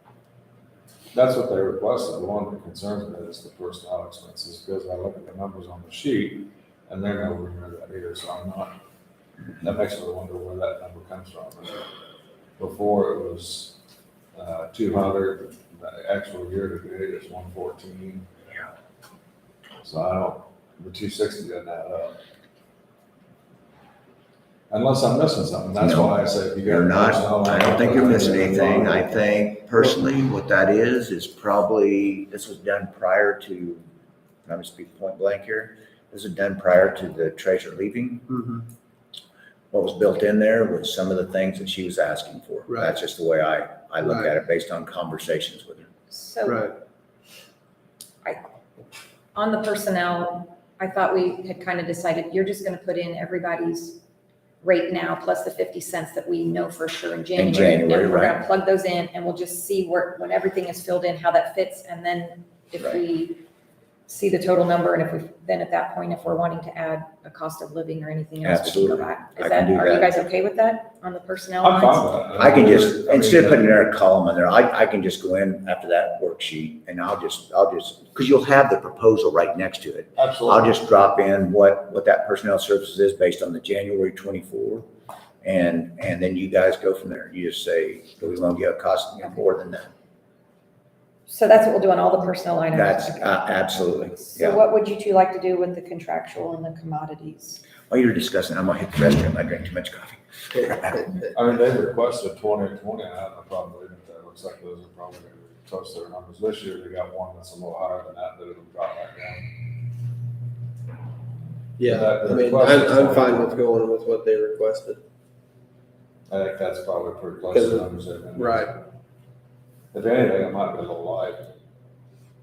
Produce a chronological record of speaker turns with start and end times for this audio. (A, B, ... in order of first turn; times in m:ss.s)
0:01.1-0:08.7 A
0:09.6-0:11.8 A
0:12.6-0:13.8 A
0:14.3-0:18.3 A
0:19.8-0:22.2 A
0:24.7-0:29.2 A
0:25.8-0:33.8 B
0:34.4-0:38.3 B
0:38.3-0:38.7 C
0:39.7-0:45.9 B
0:42.7-0:42.9 C
0:44.0-0:44.3 C
0:46.1-0:46.7 D
0:46.4-0:46.7 C
0:49.3-0:54.0 D
0:54.6-1:03.4 D
0:57.3-0:58.4 B
1:04.1-1:12.2 D
1:08.4-1:10.1 B
1:11.6-1:13.8 A
1:12.4-1:24.9 B
1:20.2-1:20.8 A
1:25.4-1:29.9 B
1:31.3-1:37.6 D
1:32.7-1:34.6 B
1:37.9-1:41.1 B
1:40.5-1:41.3 C
1:41.3-1:49.5 A
1:51.8-1:55.0 C
1:51.8-1:53.5 A
1:56.3-1:58.8 A
1:57.5-1:58.7 C
1:59.9-2:01.5 A